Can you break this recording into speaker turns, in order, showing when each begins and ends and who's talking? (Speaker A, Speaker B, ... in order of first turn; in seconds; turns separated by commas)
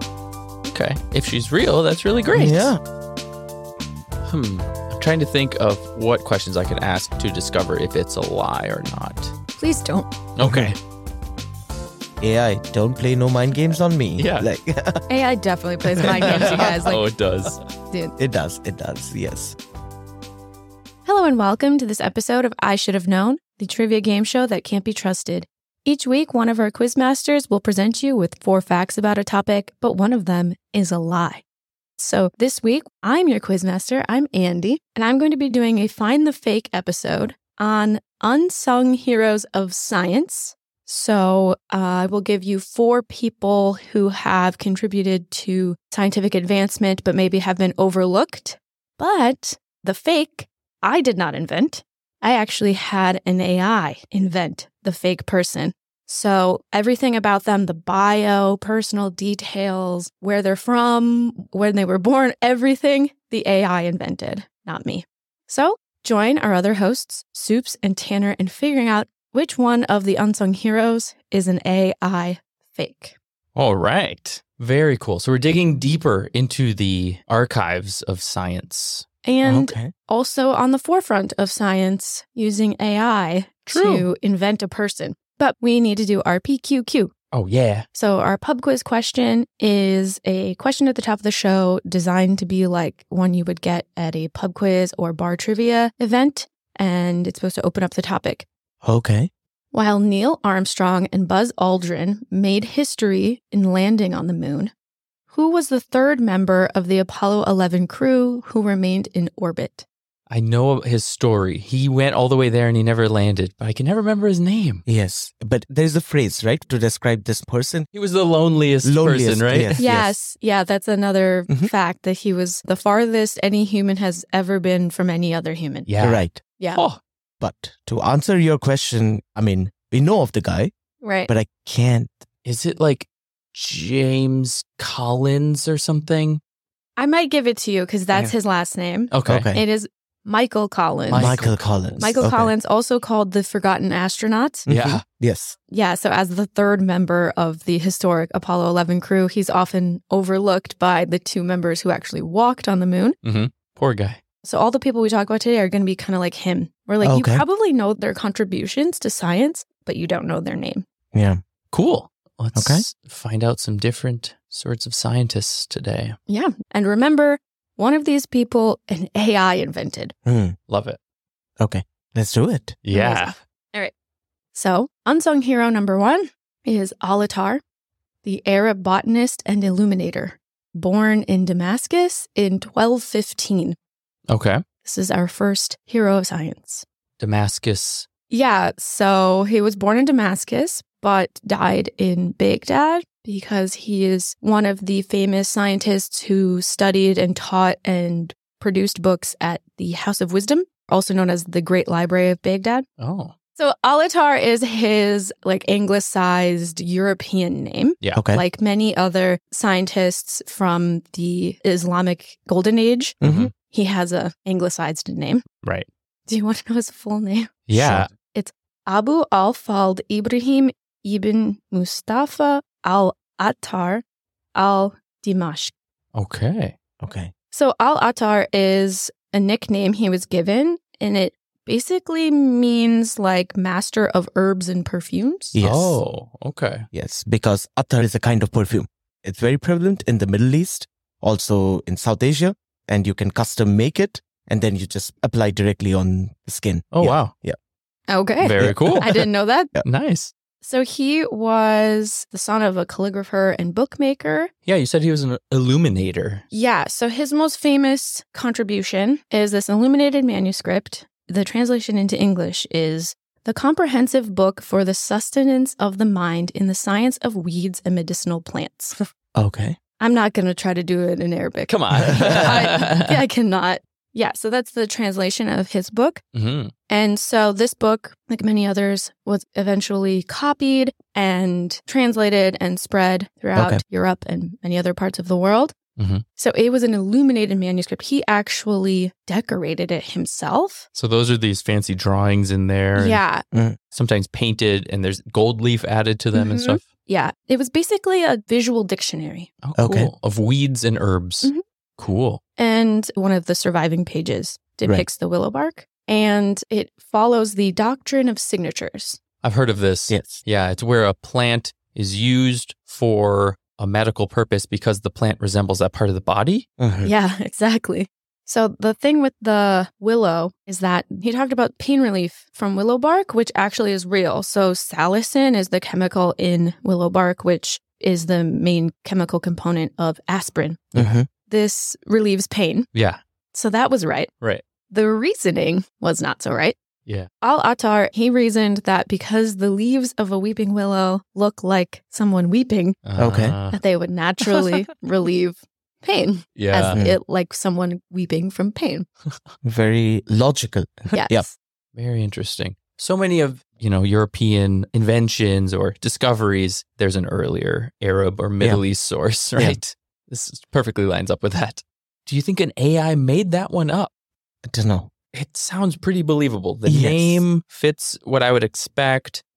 Speaker A: 0.7-2.7, Speaker B: 2.3-2.8, Speaker A: 4.2-9.3, Speaker C: 9.6-10.1, Speaker A: 10.3-10.8, Speaker B: 10.4-10.7, Speaker B: 12.2-15.0, Speaker A: 14.2-14.5, Speaker C: 15.1-17.1, Speaker B: 16.0-16.9, Speaker A: 16.0-17.6, Speaker C: 17.9-18.2, Speaker B: 18.2-19.6, Speaker C: 21.1-31.4, Speaker C: 32.0-73.1, Speaker A: 73.5-79.0, Speaker C: 79.2-87.1, Speaker B: 79.4-79.9, Speaker A: 83.7-84.1, Speaker A: 87.3-87.8, Speaker C: 87.9-98.5, Speaker B: 98.8-99.3, Speaker C: 99.7-104.7, Speaker C: 105.3-109.8, Speaker A: 110.3-114.8, Speaker B: 114.9-117.9, Speaker A: 117.9-119.9, Speaker B: 118.8-120.1, Speaker C: 119.8-125.9, Speaker A: 125.9-127.0, Speaker B: 126.0-126.4, Speaker C: 126.6-126.8, Speaker B: 127.4-130.7, Speaker C: 131.0-131.3, Speaker B: 131.3-132.1, Speaker A: 132.4-136.4, Speaker C: 137.0-141.4, Speaker A: 139.1-139.5, Speaker B: 139.2-139.6, Speaker A: 141.1-142.3, Speaker B: 141.1-142.5, Speaker C: 142.0-144.7, Speaker A: 144.7-145.0, Speaker B: 144.7-145.6, Speaker C: 145.7-153.2, Speaker A: 153.2-154.2, Speaker C: 154.4-160.8, Speaker B: 157.0-157.4, Speaker B: 161.1-161.4, Speaker A: 161.7-166.2, Speaker B: 162.6-162.8, Speaker C: 166.3-170.1, Speaker B: 170.2-170.6, Speaker A: 170.7-171.0, Speaker B: 171.6-172.8, Speaker A: 172.8-173.3, Speaker C: 172.9-173.9, Speaker C: 174.6-177.6, Speaker C: 178.2-183.8, Speaker A: 184.3-184.6, Speaker C: 184.8-186.8, Speaker A: 187.2-188.1, Speaker C: 188.3-202.9, Speaker A: 203.0-203.3, Speaker C: 203.6-215.4, Speaker A: 208.0-208.2, Speaker B: 208.2-208.4, Speaker B: 213.2-213.5, Speaker A: 213.2-213.5, Speaker A: 215.6-215.9, Speaker C: 216.3-217.6, Speaker A: 217.7-218.1, Speaker B: 217.7-218.1, Speaker C: 218.2-224.0, Speaker C: 224.6-225.7, Speaker A: 226.2-226.8, Speaker B: 227.0-227.3, Speaker C: 227.5-235.6, Speaker B: 235.6-236.0, Speaker A: 235.6-236.9, Speaker B: 236.9-247.6, Speaker A: 246.9-247.3, Speaker C: 248.1-249.7, Speaker A: 248.4-249.1, Speaker B: 248.6-249.8, Speaker A: 249.8-250.3, Speaker C: 250.6-254.5, Speaker A: 254.7-256.4, Speaker C: 256.5-269.0, Speaker B: 269.4-269.8, Speaker C: 270.0-276.2, Speaker A: 271.7-273.1, Speaker A: 276.3-276.7, Speaker C: 276.9-285.8, Speaker B: 283.6-283.8, Speaker A: 286.0-286.2, Speaker C: 286.4-290.9, Speaker A: 290.9-293.2, Speaker C: 292.9-293.4, Speaker B: 293.5-293.8, Speaker A: 293.9-296.9, Speaker C: 296.3-299.5, Speaker A: 299.6-302.4, Speaker B: 299.8-300.1, Speaker C: 302.6-309.2, Speaker A: 309.4-316.7, Speaker B: 310.1-310.4, Speaker B: 316.8-317.1, Speaker C: 317.0-332.9, Speaker B: 330.9-331.3, Speaker A: 332.9-333.2, Speaker C: 333.5-334.3, Speaker C: 334.9-336.8, Speaker C: 337.4-343.0, Speaker A: 343.1-343.8, Speaker B: 343.2-343.6, Speaker C: 343.7-349.1, Speaker A: 346.6-347.0, Speaker B: 346.9-347.2, Speaker B: 349.6-351.5, Speaker C: 351.1-351.6, Speaker A: 351.9-364.1, Speaker B: 358.6-358.9, Speaker B: 364.7-365.1, Speaker A: 365.3-369.4, Speaker B: 366.9-367.4